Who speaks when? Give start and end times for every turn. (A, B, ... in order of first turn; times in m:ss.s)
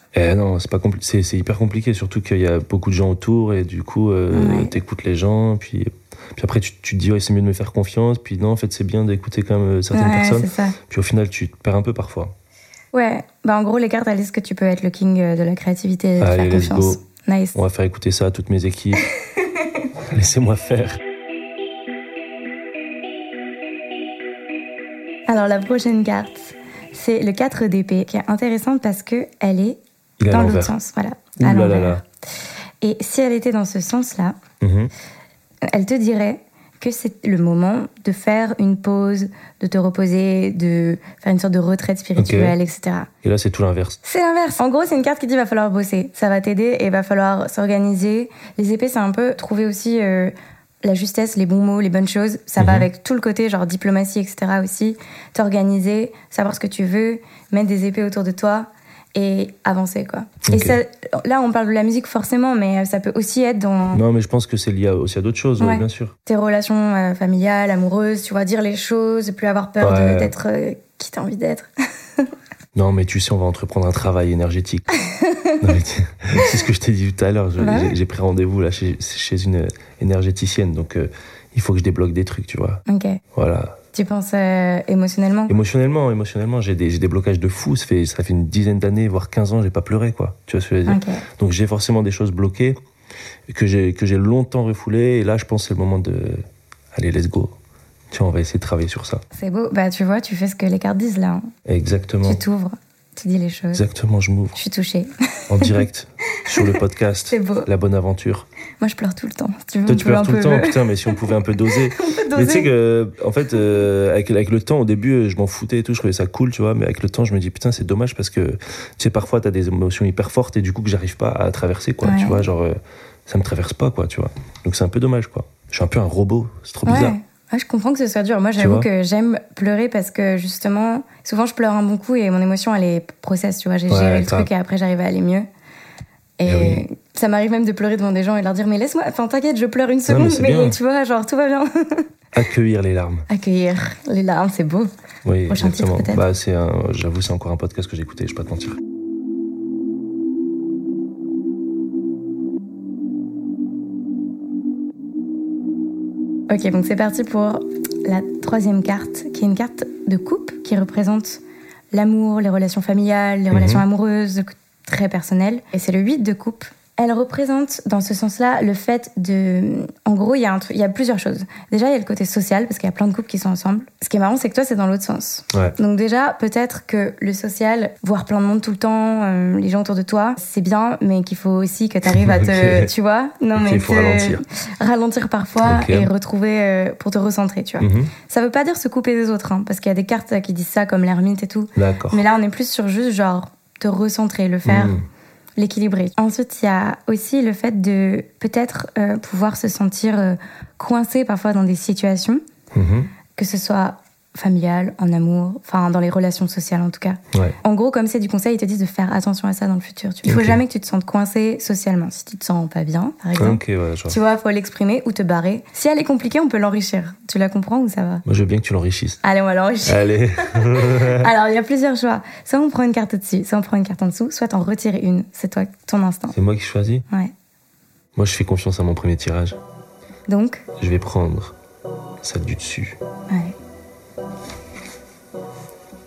0:00.1-0:12.4 A
0:04.3-0:04.7 B
0:09.9-0:10.8 B
0:12.9-0:17.6 B
0:16.2-0:17.0 A
0:17.5-0:19.1 A
0:20.0-0:21.0 A
0:25.3-0:32.0 B
0:30.2-0:30.7 A
0:31.4-0:32.0 A
0:32.8-0:34.4 B
0:34.6-0:34.9 A
0:35.7-0:43.1 B
0:42.2-0:42.6 A
0:43.2-0:44.0 A
0:44.0-1:04.0 B
0:52.6-0:52.9 A
1:00.5-1:00.8 A
1:03.9-1:06.2 A
1:05.6-1:11.7 B
1:09.8-1:10.3 A
1:12.7-1:14.9 A
1:15.0-1:15.6 B
1:15.6-1:22.8 A
1:17.6-1:18.0 B
1:22.9-1:23.2 B
1:23.3-1:23.8 A
1:23.9-1:25.5 B
1:25.5-1:32.8 A
1:30.9-1:31.2 B
1:33.5-1:37.6 A
1:38.1-1:39.2 A
1:39.3-1:41.5 B
1:41.7-1:42.4 A
1:42.2-1:43.8 B
1:43.8-1:44.6 A
1:44.6-1:45.8 B
1:45.5-1:48.5 A
1:46.5-1:46.8 B
1:47.3-1:47.7 B
1:48.8-1:51.2 B
1:49.9-2:07.2 A
1:51.7-1:52.7 B
2:02.0-2:02.4 B
2:06.9-2:15.5 B
2:08.6-2:08.9 A
2:13.9-2:14.5 A
2:16.4-2:22.1 B
2:16.5-2:16.8 A
2:20.1-2:20.8 A
2:22.3-2:23.3 A
2:23.3-2:24.9 B
2:25.2-2:28.8 A
2:25.5-2:26.2 B
2:36.5-2:41.4 B
2:41.9-3:15.0 B
2:43.5-2:43.8 A
3:02.1-3:02.9 A
3:03.6-3:04.4 A
3:05.6-3:06.1 A
3:07.8-3:08.1 A
3:11.8-3:12.2 A
3:14.7-3:15.0 A
3:15.6-3:22.4 B
3:22.7-3:23.1 A
3:23.4-3:38.2 B
3:30.2-3:30.6 A
3:33.4-3:34.2 A
3:38.2-3:39.2 A
3:39.2-3:46.4 B
3:39.8-3:41.3 A
3:46.3-3:47.0 A
3:48.2-3:49.6 A
3:50.3-3:50.7 B
3:50.8-3:51.6 A
3:52.2-3:53.0 A